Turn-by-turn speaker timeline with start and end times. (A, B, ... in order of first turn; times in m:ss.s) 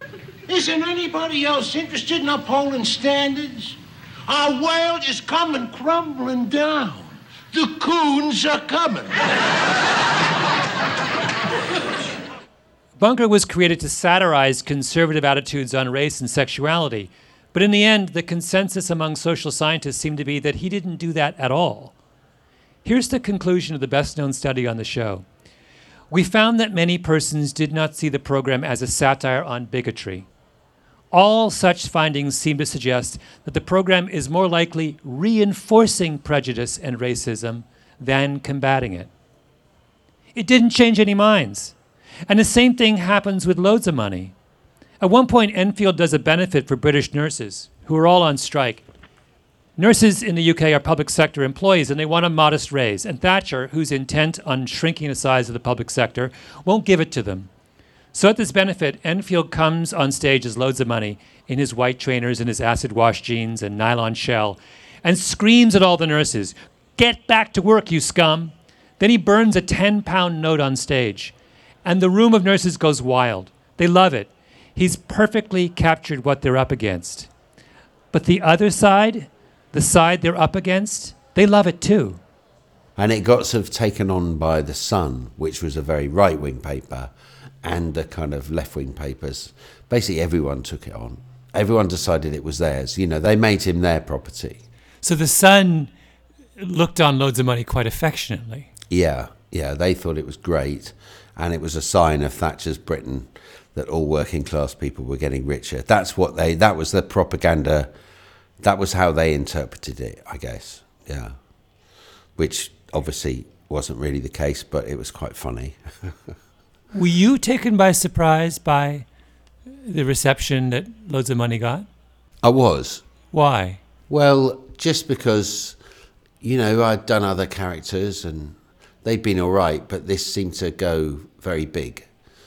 0:00.5-0:09.2 A
0:13.0-0:21.9 B
0:22.8-0:25.2 B
0:26.1-0:30.3 B
0:31.1-0:39.1 B
0:40.3-0:41.7 B
0:42.3-0:44.3 B
0:45.0-0:48.8 B
0:49.8-0:57.5 B
0:58.1-1:17.3 B
1:18.1-1:22.2 B
1:23.0-1:27.1 C
1:27.6-1:34.6 C
1:35.0-1:35.9 B
1:36.6-1:38.7 B
1:38.9-1:47.9 C
1:48.6-1:51.3 C
1:52.4-1:56.3 C
1:56.9-1:59.0 B
1:59.8-2:01.8 B
2:02.4-2:03.0 C
2:03.3-2:03.8 B
2:04.1-2:05.8 C
2:06.4-2:12.1 C